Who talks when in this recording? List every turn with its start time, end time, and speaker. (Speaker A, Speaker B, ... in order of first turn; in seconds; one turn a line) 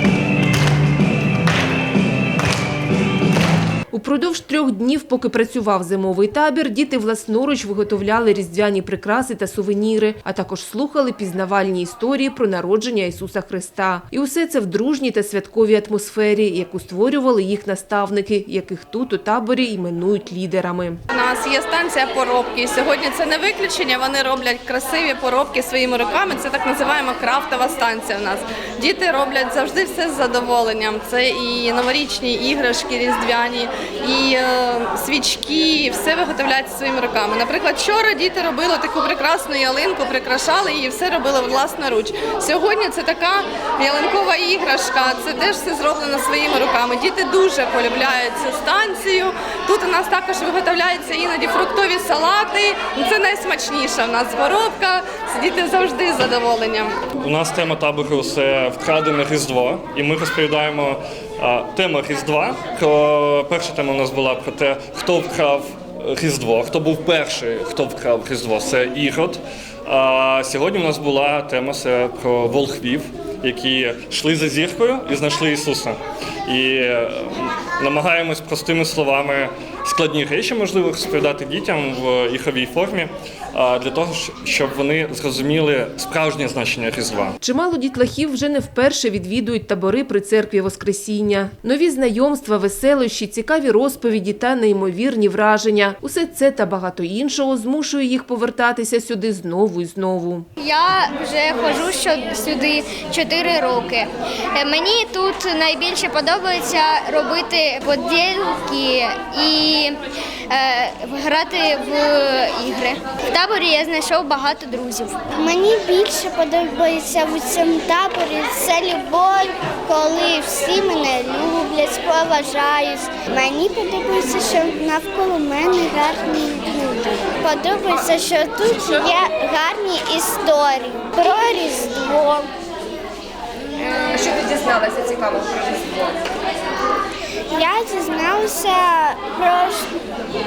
Speaker A: 3.9-21.0
Speaker B: 21.1-57.0
Speaker C: 57.2-87.4
Speaker A: 87.4-100.5
Speaker D: 100.6-110.0
Speaker D: 110.5-115.2
Speaker E: 115.3-132.5
Speaker E: 133.8-135.3
Speaker E: 137.5-140.0